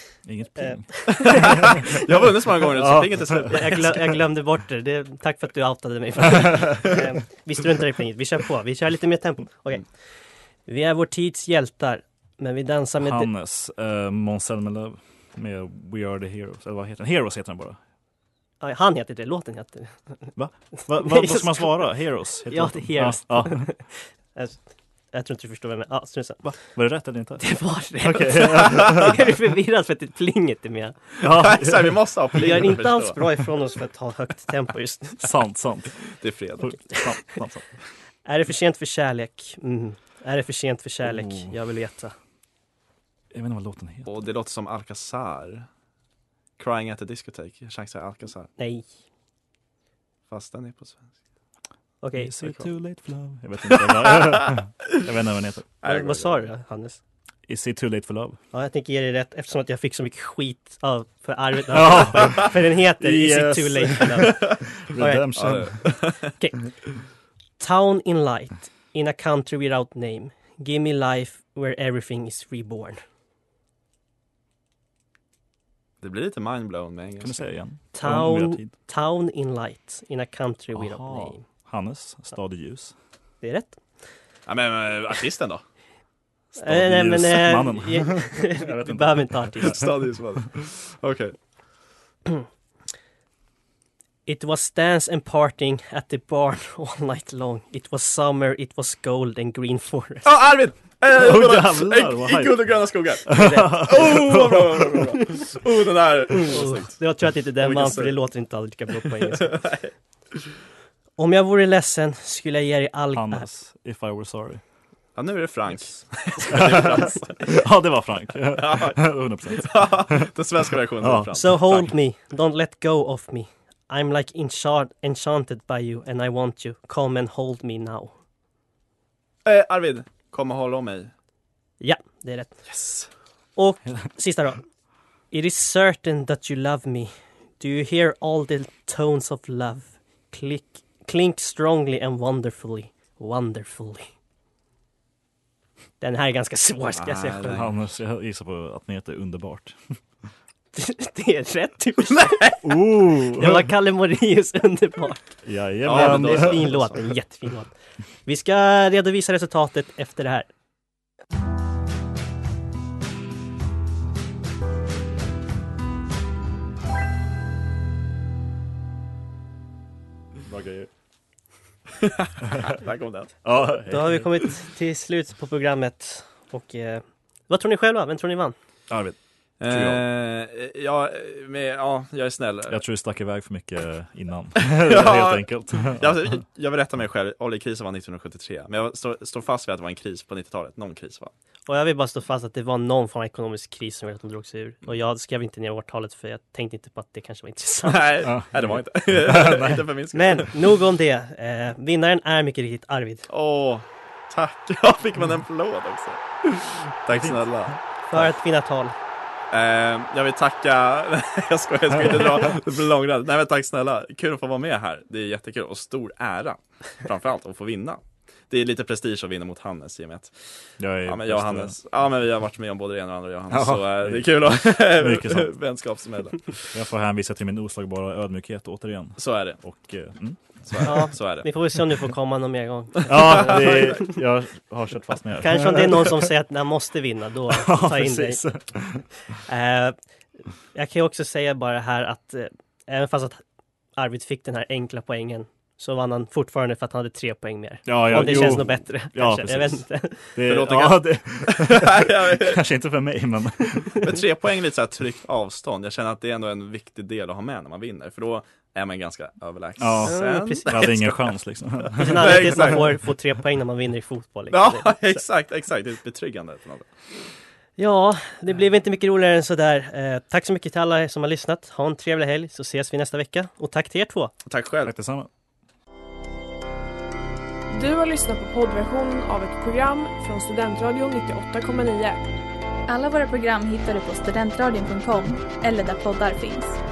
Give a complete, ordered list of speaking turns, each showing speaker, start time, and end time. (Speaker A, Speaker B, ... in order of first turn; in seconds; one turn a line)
Speaker A: 0.2-1.9
Speaker B: 0.6-2.0
Speaker C: 1.1-3.9
Speaker A: 2.7-4.0
Speaker B: 3.5-9.8
Speaker B: 10.7-13.3
Speaker A: 13.0-17.8
Speaker B: 18.6-20.3
Speaker A: 20.3-23.7
Speaker B: 20.9-21.7
Speaker B: 22.5-24.6
Speaker B: 25.1-26.5
Speaker A: 26.4-29.1
Speaker B: 27.4-31.1
Speaker A: 31.2-32.1
Speaker C: 31.2-33.2
Speaker B: 32.4-35.2
Speaker A: 35.2-35.9
Speaker C: 36.2-36.8
Speaker A: 36.6-37.6
Speaker B: 38.2-42.1
Speaker A: 41.0-41.5
Speaker A: 43.3-44.1
Speaker C: 44.0-45.6
Speaker C: 46.6-48.5
Speaker B: 48.6-48.9
Speaker C: 50.3-51.1
Speaker B: 52.0-52.6
Speaker A: 52.1-55.7
Speaker C: 53.7-54.5
Speaker C: 55.8-56.4
Speaker B: 55.8-57.0
Speaker A: 57.5-58.4
Speaker B: 58.5-65.3
Speaker A: 61.7-65.8
Speaker C: 65.3-66.3
Speaker B: 67.6-73.0
Speaker C: 76.0-77.5
Speaker A: 77.2-78.7
Speaker B: 77.9-81.4
Speaker A: 80.7-82.9
Speaker B: 83.4-83.8
Speaker C: 84.5-85.6
Speaker A: 86.5-89.9
Speaker B: 86.6-89.8
Speaker C: 89.6-91.3
Speaker B: 94.3-100.2
Speaker C: 100.2-107.0
Speaker A: 101.1-102.7
Speaker A: 103.2-105.0
Speaker B: 106.5-109.6
Speaker C: 107.6-108.2
Speaker C: 109.3-109.9
Speaker B: 111.2-113.5
Speaker A: 113.1-114.6
Speaker C: 115.2-117.6
Speaker A: 116.5-120.3
Speaker C: 118.5-121.5
Speaker A: 121.0-121.9
Speaker B: 121.3-128.1
Speaker C: 129.4-131.1
Speaker B: 131.8-132.6
Speaker C: 132.7-133.1
Speaker B: 133.6-134.6
Speaker B: 135.3-144.1
Speaker B: 146.0-147.6
Speaker C: 147.0-147.7
Speaker A: 147.5-149.8
Speaker B: 150.7-152.6
Speaker C: 152.2-152.6
Speaker A: 152.6-153.7
Speaker B: 153.3-155.3
Speaker A: 155.4-156.7
Speaker C: 155.8-157.0
Speaker B: 155.8-157.7
Speaker B: 158.2-160.5
Speaker A: 170.5-170.9
Speaker C: 172.0-173.3
Speaker A: 173.4-174.3
Speaker B: 173.9-178.6
Speaker A: 178.9-180.0
Speaker C: 179.6-182.8
Speaker A: 182.7-186.3
Speaker C: 184.6-191.3
Speaker B: 191.7-198.1
Speaker C: 197.8-200.5
Speaker A: 198.2-199.8
Speaker B: 200.1-203.3
Speaker C: 203.3-208.2
Speaker B: 208.1-208.9
Speaker C: 209.5-220.3
Speaker A: 220.8-221.8
Speaker C: 221.0-226.6
Speaker A: 223.5-225.5
Speaker A: 226.7-231.1
Speaker C: 229.2-229.6
Speaker C: 230.7-231.8
Speaker B: 230.8-234.1
Speaker A: 233.0-236.3
Speaker C: 233.3-233.9
Speaker B: 235.4-238.4
Speaker A: 237.5-239.1
Speaker B: 239.5-239.9
Speaker B: 240.7-243.4
Speaker B: 244.0-250.3
Speaker A: 247.8-254.1
Speaker C: 248.1-248.5
Speaker C: 250.4-252.6
Speaker C: 254.0-261.0
Speaker A: 259.8-262.8
Speaker B: 260.0-261.3
Speaker B: 262.0-265.2
Speaker C: 262.1-262.9
Speaker C: 264.5-266.9
Speaker B: 267.8-274.3
Speaker C: 274.4-274.9
Speaker A: 274.8-275.3
Speaker D: 277.7-282.2
Speaker E: 282.9-286.8